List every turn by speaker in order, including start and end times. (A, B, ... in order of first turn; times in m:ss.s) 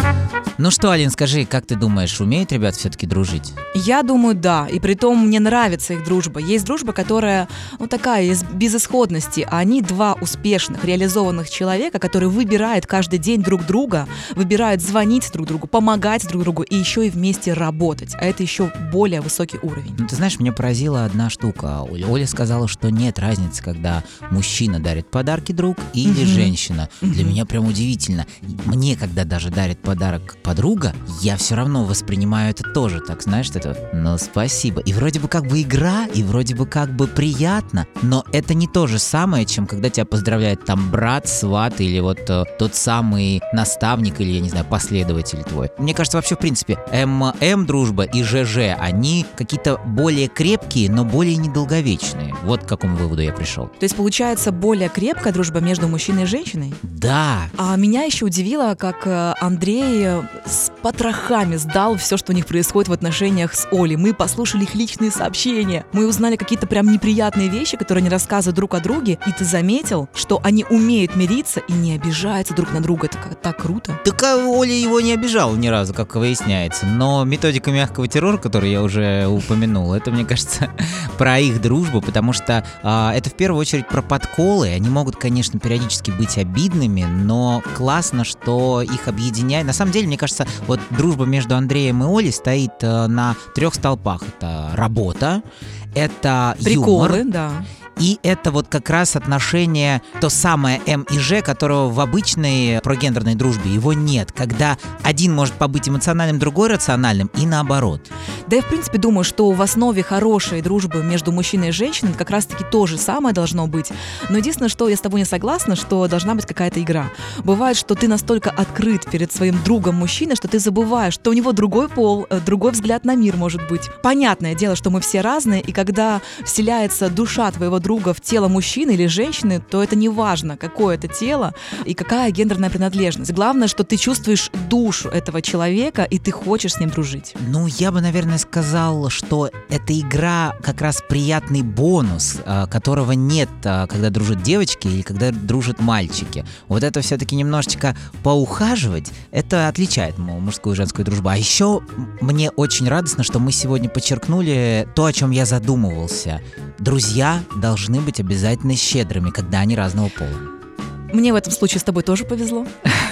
0:00.6-0:03.5 A
0:03.7-0:20.0 B
0:20.0-0:53.7 A
0:26.0-0:27.4 B
0:53.8-0:56.8 B
0:56.8-0:57.5 A
0:57.6-1:14.0 B
1:14.0-1:35.4 A
1:35.9-1:37.2 A
1:36.6-1:37.6 B
1:38.0-1:48.1 A
1:48.5-2:17.4 B
2:17.4-2:40.4 A
2:41.1-2:42.7 B